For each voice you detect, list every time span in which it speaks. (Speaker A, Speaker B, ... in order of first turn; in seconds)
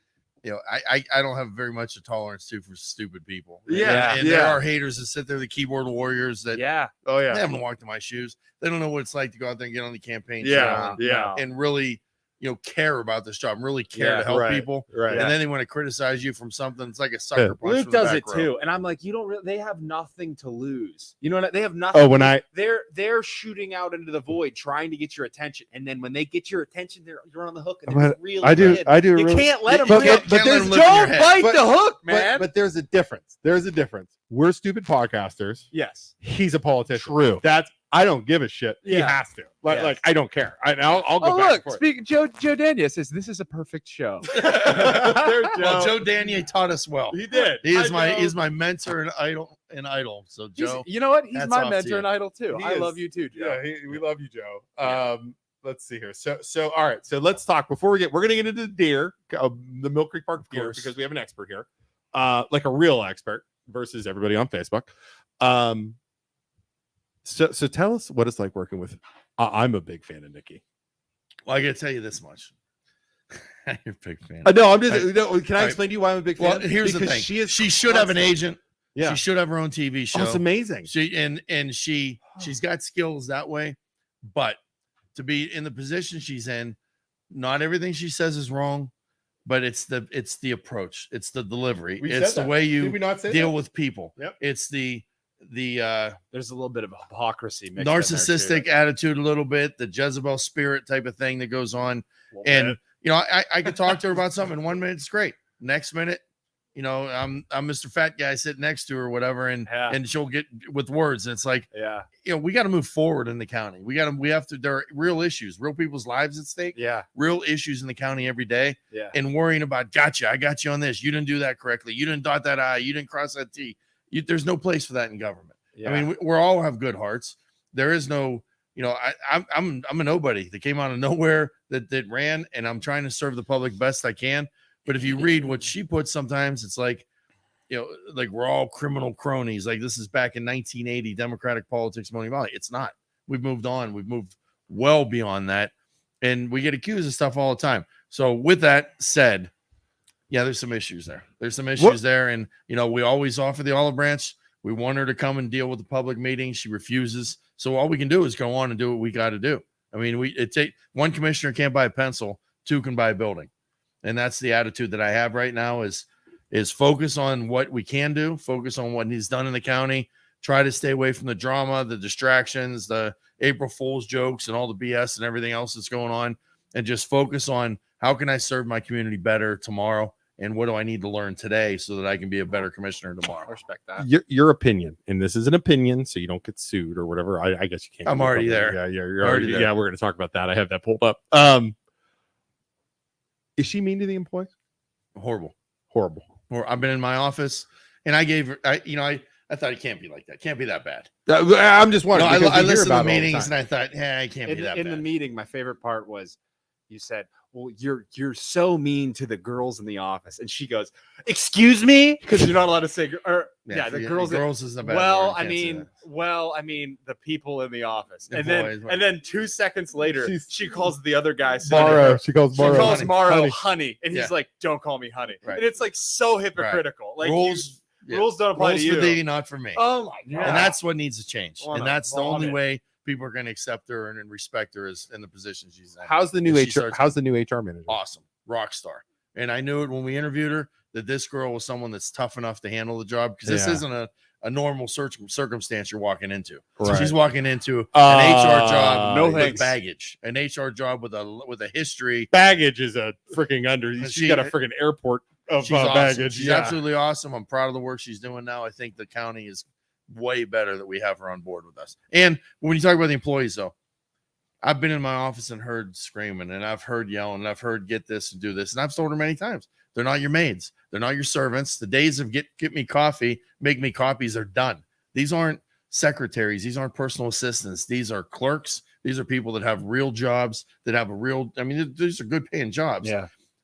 Speaker A: 0.4-6.6, 7.3-18.5, 29.7-31.4, 44.3-52.1, 60.5-60.9, 71.5-72.5, 73.4-75.8, 76.4-84.6, 85.1-86.8, 87.3-88.9, 89.4-96.2, 97.8-106.2, 106.8-111.7, 112.2-137.1, 137.7-149.5, 150.3-163.5, 164.0-183.5, 188.0-189.7, 195.2-195.5, 196.5-201.1, 202.1-205.0, 213.7-215.9, 218.3-219.1, 221.7-223.2, 226.6-229.8, 230.4-237.1, 237.9-252.3, 254.0-254.5, 255.6-263.7, 264.6-283.1
Speaker B: 3.7-4.6, 7.0-7.5, 10.4-11.4, 14.2-15.3, 21.9-22.4, 27.9-30.8, 31.4-35.7, 36.2-41.8, 44.4-45.9, 47.1-48.3, 52.5-66.0, 67.2-70.6, 74.4-77.7, 80.1-80.9, 92.0-93.5, 102.4-102.7, 184.0-191.8, 193.6-194.5, 195.9-196.3, 201.3-203.4, 220.2-220.5, 221.6-223.6, 230.3-230.7, 236.0-238.0, 243.4-243.8, 246.8-247.1, 247.9-249.6, 252.3-256.8
Speaker C: 3.7-4.2, 6.5-6.9, 10.4-11.4, 13.9-14.2, 15.1-15.4, 17.6-32.5, 35.7-36.1, 37.0-37.3, 38.8-40.0, 41.2-46.0, 50.5-53.6, 77.8-78.2, 96.3-98.7, 109.7-110.0, 111.7-112.1, 116.8-117.0, 125.8-126.1, 183.4-184.1, 203.2-203.5, 204.4-206.4, 206.9-229.2, 229.7-230.7, 231.6-232.6, 249.1-249.7, 283.0-283.3